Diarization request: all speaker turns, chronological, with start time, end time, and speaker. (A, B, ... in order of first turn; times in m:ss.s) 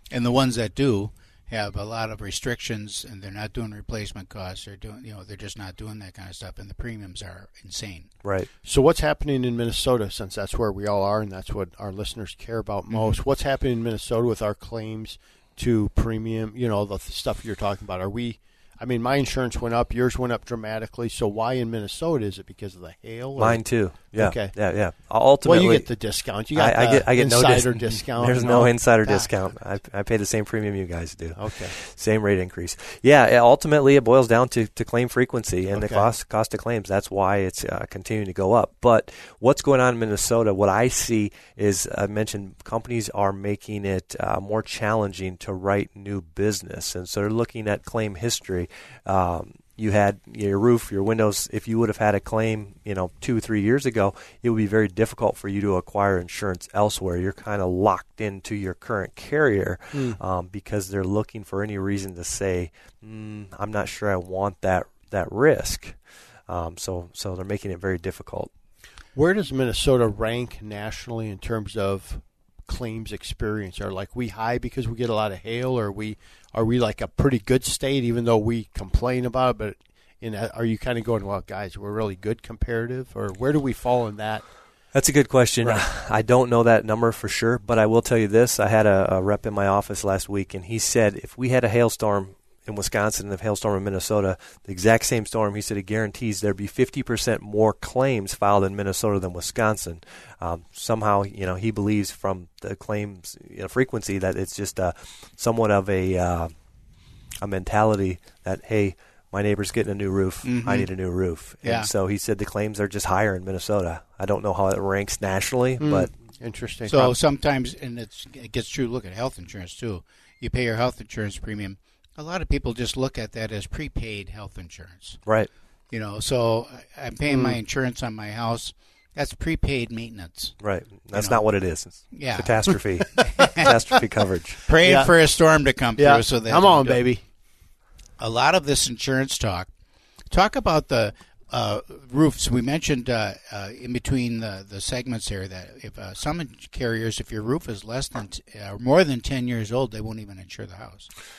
0:00.1-0:08.1 A
0:08.2-0:08.5 B
0:08.6-0:24.6 C
0:12.9-0:13.2 A
0:23.4-1:06.0 B
0:25.4-0:29.3 C
0:31.4-0:31.7 C
0:35.7-0:36.1 C
0:59.9-1:00.2 C
1:06.5-1:08.5 B
1:09.1-1:24.4 C
1:24.9-1:46.5 B
1:47.4-1:56.1 B
1:50.4-1:51.9 A
1:55.8-1:57.2 C
1:56.9-2:05.2 A
2:05.9-2:10.5 A
2:07.3-2:07.6 C
2:10.6-2:14.6 B
2:11.1-2:13.7 A
2:14.6-2:17.0 A
2:14.8-2:15.1 C
2:16.0-2:17.2 C
2:18.2-2:19.7 A
2:20.3-2:31.1 A